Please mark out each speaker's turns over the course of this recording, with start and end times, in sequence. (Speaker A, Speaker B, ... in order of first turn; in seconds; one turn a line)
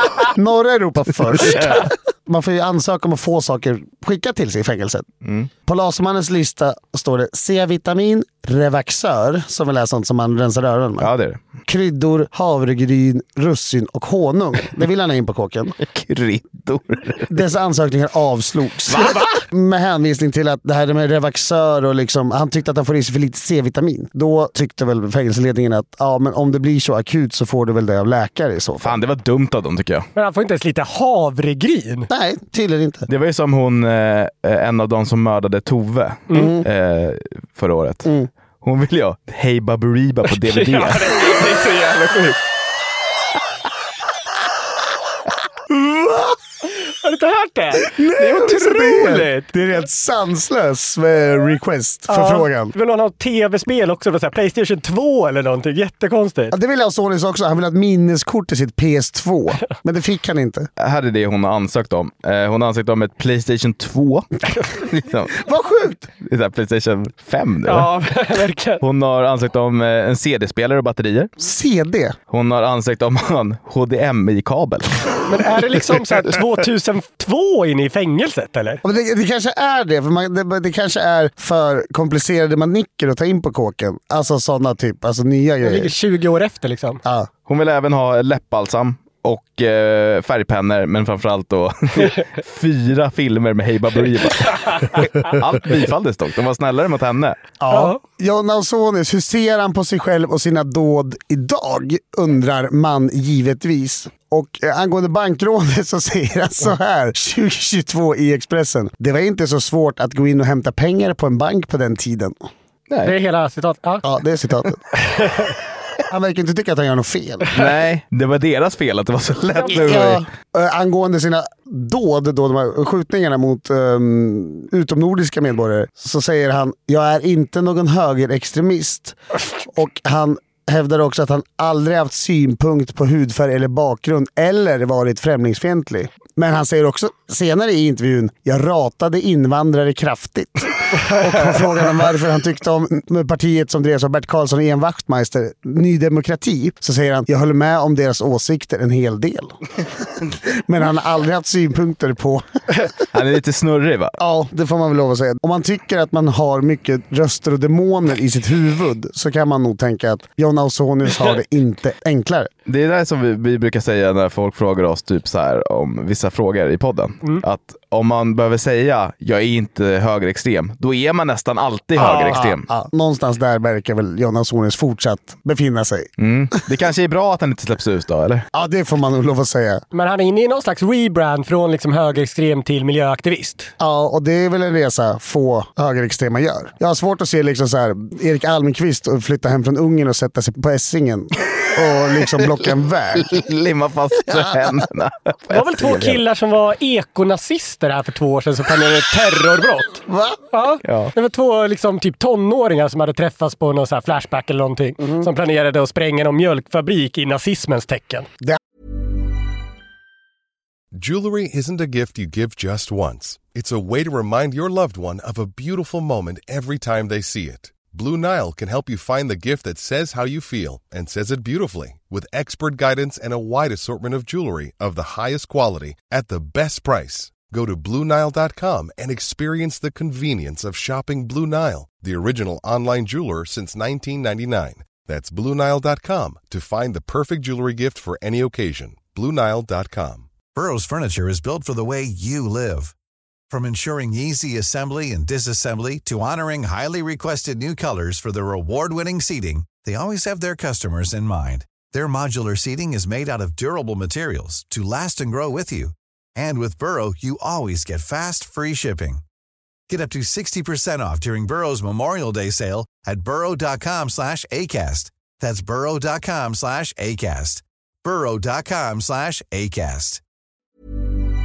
Speaker A: 0.3-5.0
Speaker B: 1.4-1.8
Speaker B: 5.2-5.5
Speaker A: 5.7-11.1
Speaker B: 11.0-11.4
Speaker A: 11.7-15.7
Speaker B: 15.8-17.3
Speaker A: 17.3-29.0
Speaker B: 28.8-30.1
Speaker C: 30.1-32.1
Speaker A: 32.1-33.1
Speaker B: 33.1-38.1
Speaker A: 36.3-36.6
Speaker B: 38.6-41.2
Speaker C: 40.4-42.4
Speaker A: 45.8-46.3
Speaker C: 46.7-49.5
Speaker A: 47.8-52.7
Speaker C: 52.1-56.5
Speaker A: 56.5-60.7
Speaker B: 60.8-65.4
Speaker A: 65.4-66.1
Speaker B: 66.2-67.9
Speaker C: 67.6-68.8
Speaker B: 68.8-71.3
Speaker A: 71.4-72.2
Speaker B: 72.3-75.2
Speaker C: 75.3-78.8
Speaker A: 78.8-85.9
Speaker C: 85.6-87.0
Speaker A: 87.0-87.3
Speaker B: 87.5-97.4
Speaker A: 97.6-112.4
Speaker C: 97.7-98.0
Speaker B: 112.9-113.1
Speaker C: 113.0-114.0
Speaker A: 114.0-114.8
Speaker C: 115.1-115.5
Speaker A: 116.1-117.5
Speaker B: 117.5-120.2
Speaker A: 119.7-149.6
Speaker A: 150.4-152.4
Speaker B: 153.1-154.2
Speaker A: 154.2-162.5
Speaker B: 162.7-172.6
Speaker C: 172.0-172.4
Speaker A: 172.3-176.1
Speaker B: 176.2-178.4
Speaker A: 178.5-179.8
Speaker C: 179.9-183.7
Speaker A: 183.8-193.4
Speaker B: 193.2-196.2
Speaker A: 194.3-194.7
Speaker C: 195.5-208.3
Speaker A: 200.1-200.4
Speaker B: 200.8-201.1
Speaker D: 210.9-240.3
Speaker E: 240.5-242.9
Speaker E: 243.5-259.2
Speaker E: 259.9-270.2